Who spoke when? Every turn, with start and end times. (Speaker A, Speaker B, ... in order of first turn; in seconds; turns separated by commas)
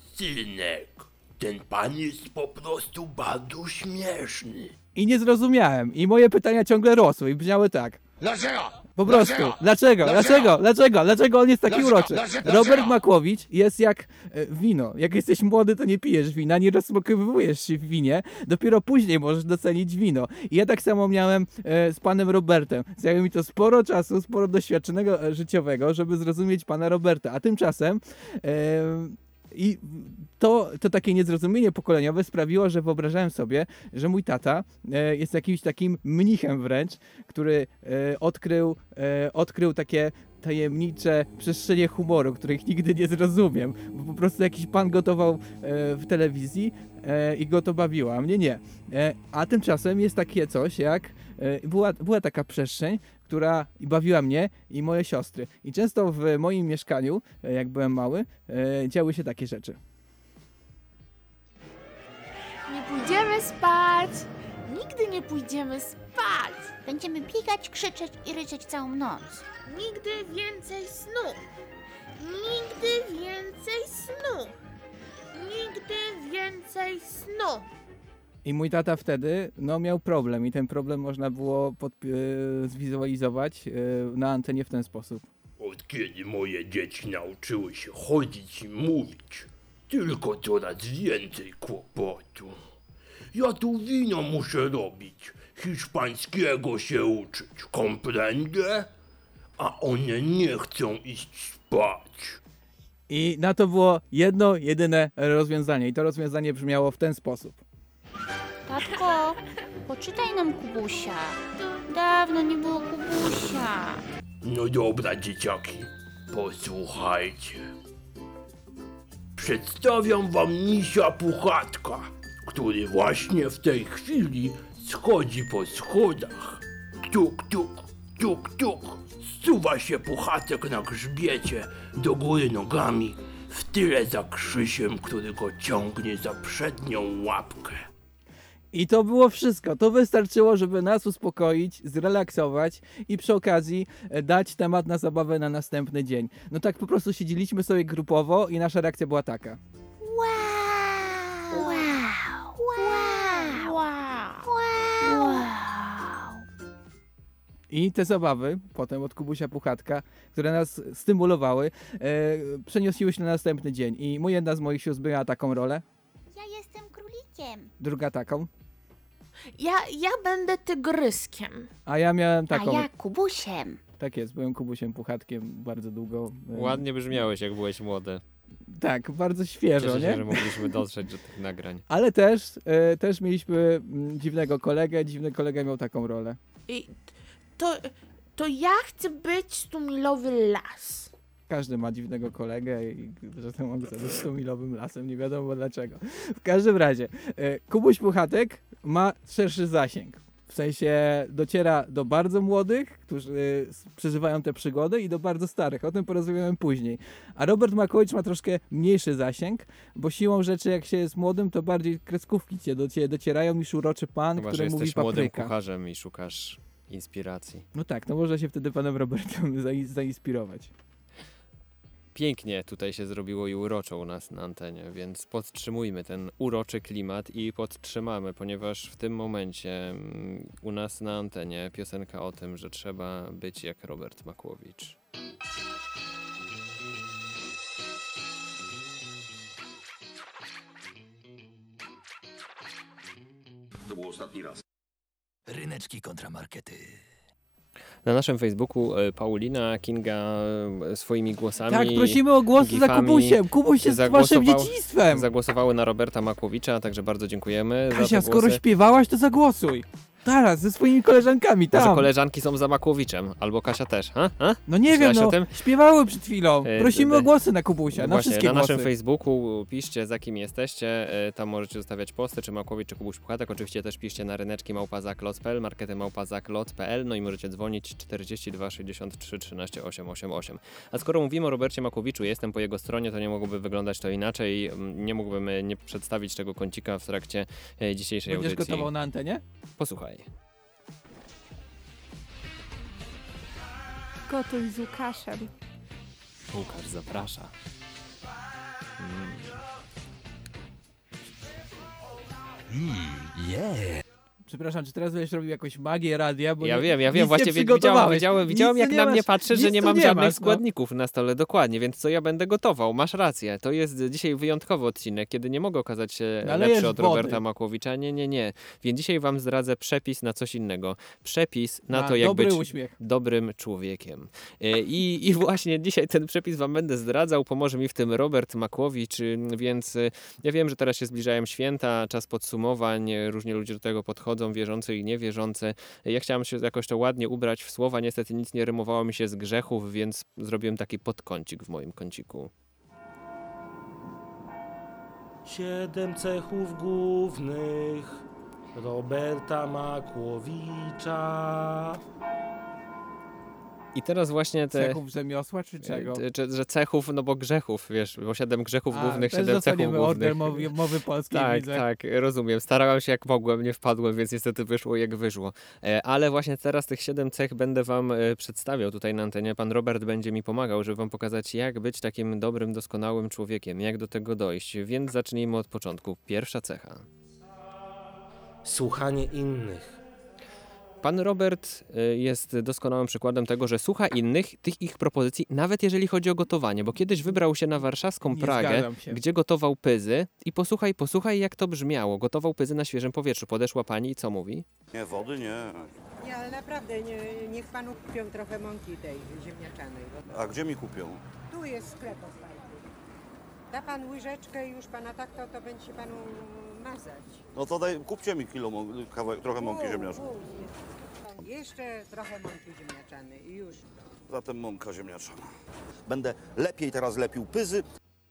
Speaker A: 0.1-4.8, Speaker B: 5.0-8.0, Speaker A: 8.4-8.7, Speaker B: 9.0-59.8, Speaker C: 62.7-66.8, Speaker D: 66.8-69.5, Speaker C: 69.5-71.4, Speaker C: 72.2-74.5, Speaker C: 75.3-77.7, Speaker B: 78.5-85.3, Speaker A: 85.6-92.6, Speaker A: 93.3-98.9, Speaker A: 99.6-102.4, Speaker B: 103.1-107.6, Speaker D: 108.7-114.0, Speaker A: 114.4-117.7, Speaker A: 119.4-137.9, Speaker B: 138.7-149.6, Speaker D: 150.0-156.4, Speaker C: 153.6-153.9, Speaker B: 157.7-165.8, Speaker D: 166.3-167.7, Speaker B: 167.8-168.5, Speaker C: 169.6-171.7, Speaker B: 171.9-172.9, Speaker D: 172.5-173.8, Speaker B: 174.0-176.8, Speaker E: 176.5-178.2, Speaker B: 178.7-180.7, Speaker E: 179.8-181.8, Speaker B: 181.9-186.4, Speaker C: 186.7-191.1, Speaker B: 191.5-215.5, Speaker E: 214.4-217.7, Speaker B: 217.7-220.7, Speaker E: 222.2-235.0, Speaker F: 243.8-244.6, Speaker G: 245.5-247.0, Speaker E: 248.1-258.6, Speaker B: 251.7-255.3, Speaker B: 257.9-262.1, Speaker E: 261.7-265.6, Speaker B: 264.7-268.9, Speaker E: 266.6-267.3, Speaker E: 267.9-288.9, Speaker B: 288.3-289.4, Speaker E: 289.8-290.3, Speaker C: 294.3-295.5, Speaker E: 296.5-297.5, Speaker E: 299.0-299.6, Speaker G: 303.4-303.8, Speaker B: 304.5-310.6, Speaker E: 306.6-342.5, Speaker B: 316.4-317.4, Speaker B: 321.9-322.9, Speaker H: 345.4-352.0, Speaker E: 353.9-355.0, Speaker B: 354.7-356.2, Speaker E: 355.8-360.7, Speaker B: 358.9-361.8, Speaker E: 361.3-377.1, Speaker H: 378.6-380.0, Speaker E: 381.0-394.7, Speaker B: 388.3-389.2, Speaker F: 394.9-395.9, Speaker I: 396.2-400.2, Speaker F: 400.3-401.2, Speaker I: 401.5-402.7, Speaker I: 403.7-407.4, Speaker F: 407.5-410.2, Speaker I: 409.3-410.7, Speaker I: 411.2-413.8, Speaker F: 414.3-415.5, Speaker F: 416.1-417.8